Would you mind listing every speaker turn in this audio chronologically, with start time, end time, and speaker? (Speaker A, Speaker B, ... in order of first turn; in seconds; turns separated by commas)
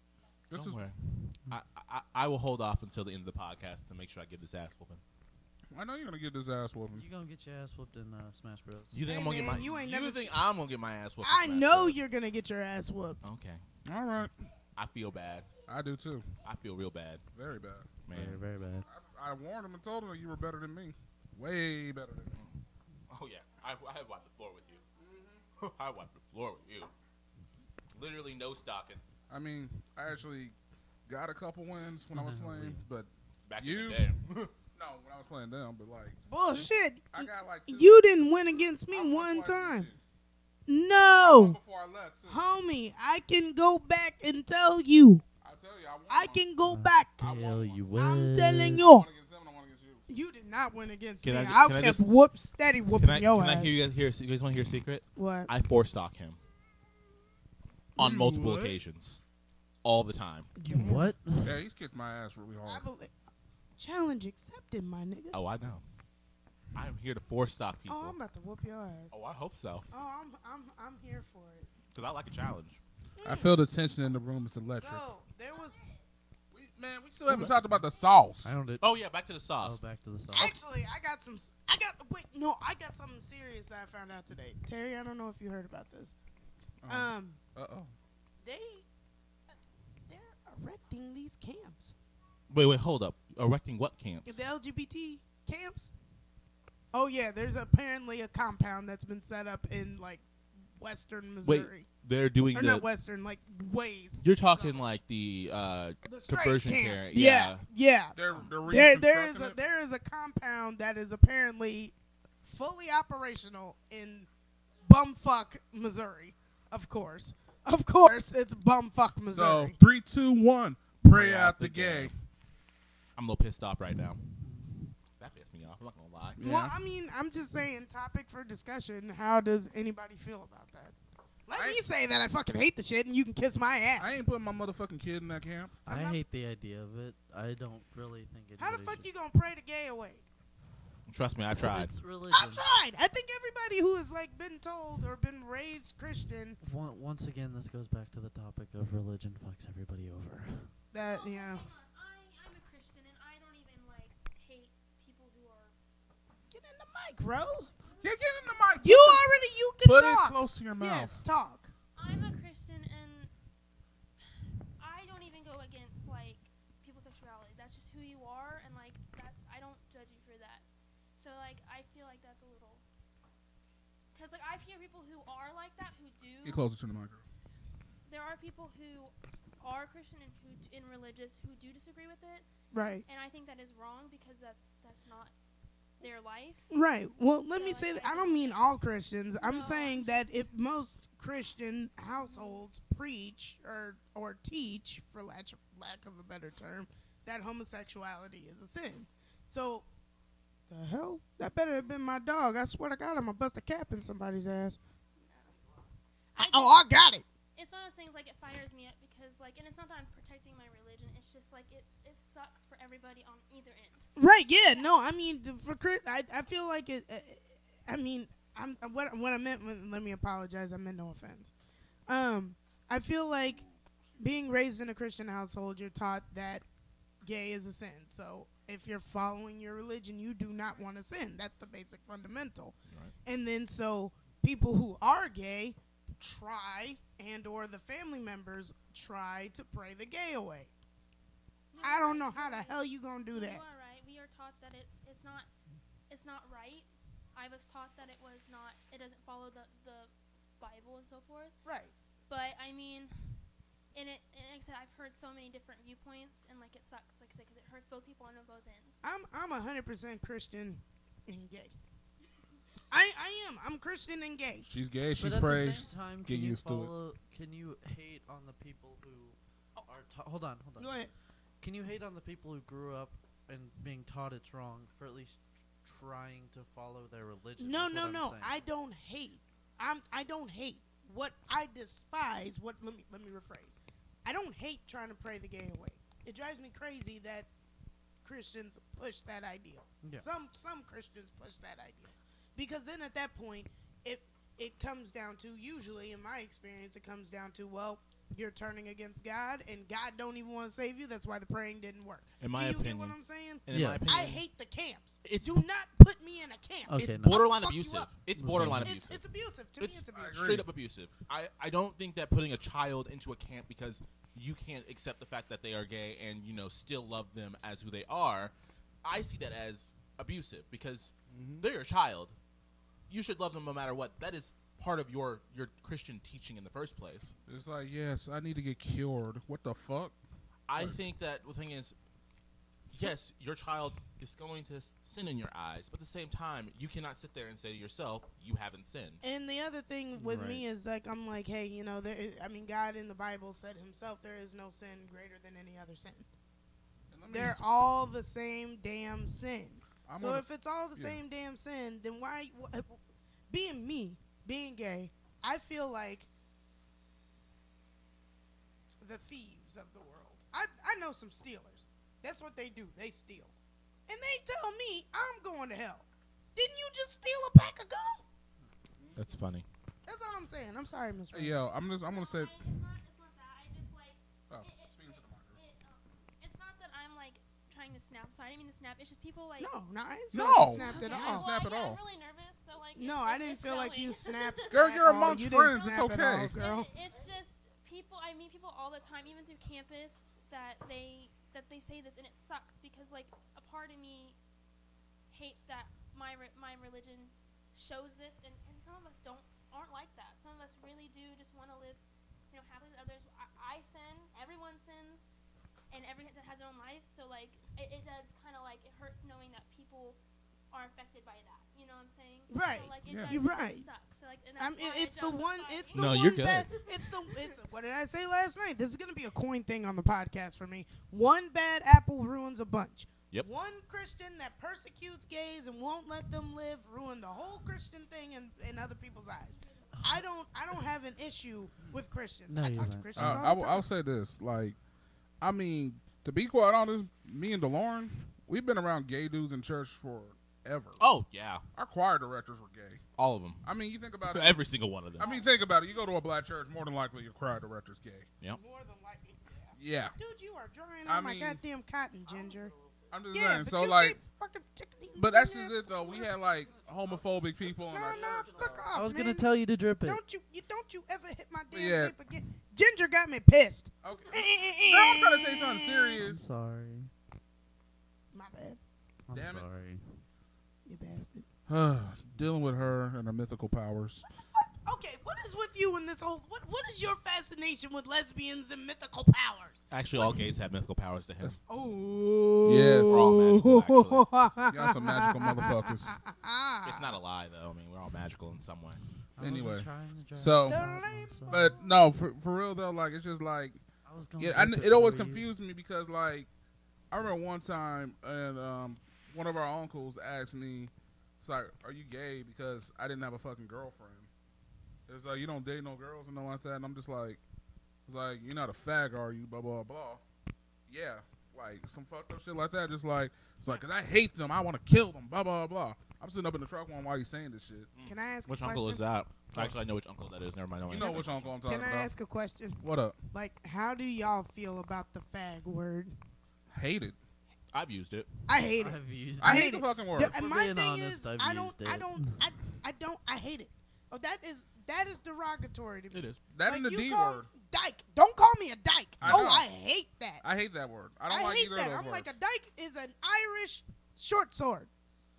Speaker A: 0.5-0.8, Speaker B: 0.5-5.0, Speaker A: 5.7-7.1, Speaker C: 6.9-9.0, Speaker B: 8.9-12.0, Speaker D: 9.0-10.4, Speaker D: 11.2-13.2, Speaker B: 13.2-13.6, Speaker A: 13.8-14.3, Speaker B: 14.8-15.5, Speaker A: 15.6-16.4, Speaker B: 16.4-17.2, Speaker A: 17.3-17.9, Speaker B: 18.0-18.4, Speaker C: 18.1-18.9, Speaker A: 18.9-22.4, Speaker B: 22.3-24.8, Speaker A: 25.0-25.4, Speaker B: 25.6-26.9, Speaker B: 27.9-29.0, Speaker A: 29.3-30.5, Speaker A: 31.1-34.1, Speaker C: 32.1-32.8, Speaker B: 33.5-34.5, Speaker A: 34.7-36.2, Speaker D: 36.3-39.9, Speaker A: 37.1-37.9, Speaker A: 38.9-40.0, Speaker D: 40.7-41.6, Speaker A: 41.2-42.4, Speaker D: 42.3-45.2, Speaker A: 45.4-46.4, Speaker D: 46.1-47.2, Speaker C: 46.7-48.8, Speaker A: 47.2-47.9, Speaker D: 48.0-49.1, Speaker A: 48.8-50.0, Speaker D: 50.1-53.8, Speaker B: 51.2-52.0, Speaker B: 53.0-56.4, Speaker D: 55.1-55.5, Speaker B: 58.0-59.2, Speaker A: 58.0-58.8, Speaker B: 59.8-60.5, Speaker D: 60.5-61.1, Speaker C: 60.7-61.5, Speaker A: 61.4-62.8, Speaker D: 62.6-63.1, Speaker D: 63.8-65.4, Speaker B: 65.3-65.8, Speaker B: 66.7-68.2, Speaker D: 67.9-69.1, Speaker B: 69.1-69.9, Speaker D: 69.9-71.7, Speaker B: 71.9-72.8, Speaker D: 73.2-73.5, Speaker A: 73.2-75.0, Speaker D: 74.7-75.8, Speaker E: 75.5-75.9, Speaker A: 76.5-78.5, Speaker B: 77.3-77.6, Speaker C: 78.4-78.9, Speaker B: 78.8-79.8, Speaker C: 79.6-80.5, Speaker D: 80.3-86.1, Speaker A: 86.8-87.9, Speaker D: 86.9-87.4, Speaker D: 88.4-88.8, Speaker D: 90.1-91.9, Speaker B: 92.5-94.4, Speaker D: 94.2-95.9, Speaker D: 96.9-100.2, Speaker D: 100.8-101.9, Speaker B: 101.4-102.9, Speaker D: 102.5-104.8, Speaker B: 104.2-107.6, Speaker D: 106.0-114.3, Speaker A: 108.1-109.6, Speaker D: 114.8-119.8, Speaker A: 119.3-122.1, Speaker B: 121.0-122.1, Speaker B: 123.2-124.2, Speaker C: 124.4-124.8, Speaker B: 125.2-126.4, Speaker A: 126.4-126.7, Speaker D: 126.4-130.9, Speaker D: 131.5-134.2, Speaker A: 131.5-131.8, Speaker A: 134.0-135.8, Speaker D: 135.9-136.2, Speaker C: 135.9-139.1, Speaker D: 138.6-140.2, Speaker B: 141.1-141.9, Speaker C: 141.5-142.6, Speaker D: 142.3-146.6, Speaker C: 146.6-150.7, Speaker D: 150.9-151.6, Speaker E: 151.0-155.8, Speaker D: 156.5-157.7, Speaker E: 157.9-158.6, Speaker A: 158.0-159.2, Speaker D: 158.8-161.7, Speaker A: 159.8-161.1, Speaker E: 161.9-163.3, Speaker E: 164.8-170.6, Speaker E: 171.2-172.8, Speaker E: 174.1-176.6, Speaker A: 176.4-177.2, Speaker E: 178.1-182.4, Speaker D: 182.7-183.0, Speaker E: 183.1-185.3, Speaker E: 186.0-186.7, Speaker D: 186.7-199.8, Speaker E: 187.5-188.7, Speaker E: 189.4-190.4, Speaker E: 192.2-192.6, Speaker D: 200.7-204.8, Speaker E: 205.2-205.8, Speaker E: 206.3-207.0, Speaker D: 206.4-207.2, Speaker E: 207.5-214.1, Speaker D: 214.2-221.5, Speaker D: 222.1-223.6, Speaker D: 224.2-226.6, Speaker D: 227.2-240.7, Speaker E: 241.7-242.8, Speaker D: 241.8-243.6, Speaker E: 243.3-245.5, Speaker E: 246.1-251.5, Speaker D: 251.6-251.9, Speaker E: 252.3-253.1, Speaker E: 253.9-259.0, Speaker D: 259.0-261.7, Speaker D: 262.9-264.7, Speaker A: 264.6-266.9, Speaker C: 265.2-270.9, Speaker D: 270.8-271.1, Speaker C: 271.6-278.6, Speaker D: 277.6-287.5, Speaker D: 288.2-310.5, Speaker B: 302.4-304.4, Speaker C: 303.7-304.0, Speaker B: 305.2-305.6, Speaker C: 306.9-307.4, Speaker B: 307.0-309.2, Speaker C: 308.4-308.9, Speaker B: 309.8-322.4, Speaker A: 310.1-310.7, Speaker A: 321.3-321.6, Speaker B: 323.1-327.3, Speaker A: 327.5-330.1, Speaker B: 330.7-331.9, Speaker B: 332.9-339.2, Speaker D: 339.2-346.3, Speaker C: 340.1-340.6, Speaker A: 347.1-347.6, Speaker D: 347.3-356.3, Speaker A: 350.0-351.2, Speaker D: 359.0-363.5, Speaker D: 364.1-368.2, Speaker B: 369.1-369.6, Speaker D: 370.1-371.6, Speaker A: 371.3-372.6, Speaker E: 372.0-379.7, Speaker A: 374.5-375.6, Speaker D: 379.6-381.5, Speaker A: 380.3-382.0, Speaker E: 380.7-394.4, Speaker D: 382.9-386.9, Speaker A: 384.7-386.5, Speaker E: 395.3-402.0, Speaker E: 402.5-405.2, Speaker E: 405.9-410.2, Speaker E: 410.7-416.4, Speaker D: 412.5-413.9, Speaker A: 413.1-413.4, Speaker D: 414.6-433.9, Speaker B: 415.9-416.7, Speaker C: 429.9-430.2, Speaker C: 432.5-433.5, Speaker A: 433.1-434.8, Speaker A: 435.4-441.0, Speaker B: 441.0-441.6, Speaker A: 441.8-443.0, Speaker B: 443.2-443.6, Speaker A: 443.6-448.3, Speaker B: 444.2-445.3, Speaker D: 445.2-445.5, Speaker D: 448.5-452.7, Speaker A: 449.8-450.1, Speaker A: 451.1-451.6, Speaker A: 453.1-454.2, Speaker D: 453.3-456.4, Speaker A: 455.2-458.9, Speaker D: 457.9-459.5, Speaker C: 458.9-460.2, Speaker D: 460.0-466.2, Speaker A: 461.7-462.1, Speaker A: 464.0-466.5, Speaker C: 466.1-467.1, Speaker D: 468.3-468.8, Speaker C: 469.3-470.2, Speaker A: 469.3-469.6, Speaker D: 470.9-471.5, Speaker A: 471.7-474.2, Speaker D: 474.5-480.4, Speaker B: 479.9-481.6, Speaker D: 481.7-487.1, Speaker A: 482.6-483.3, Speaker B: 483.1-484.2, Speaker A: 484.7-486.2, Speaker B: 486.9-489.0, Speaker C: 489.4-491.7, Speaker A: 489.4-490.8, Speaker D: 490.7-491.8, Speaker A: 491.5-493.8, Speaker C: 494.0-495.5, Speaker A: 494.4-496.5, Speaker A: 497.1-504.3, Speaker A: 505.1-507.4, Speaker A: 508.1-510.2, Speaker A: 510.9-517.9, Speaker B: 517.9-521.5, Speaker D: 518.0-519.0, Speaker A: 520.9-522.1, Speaker D: 521.0-526.1, Speaker A: 522.8-523.2, Speaker A: 526.7-527.2, Speaker B: 527.7-528.3, Speaker D: 528.5-540.4, Speaker C: 528.8-529.7, Speaker A: 529.4-530.4, Speaker C: 530.2-532.4, Speaker B: 536.1-536.4, Speaker A: 536.5-537.5, Speaker A: 539.2-539.7, Speaker A: 540.4-542.3, Speaker D: 541.3-544.9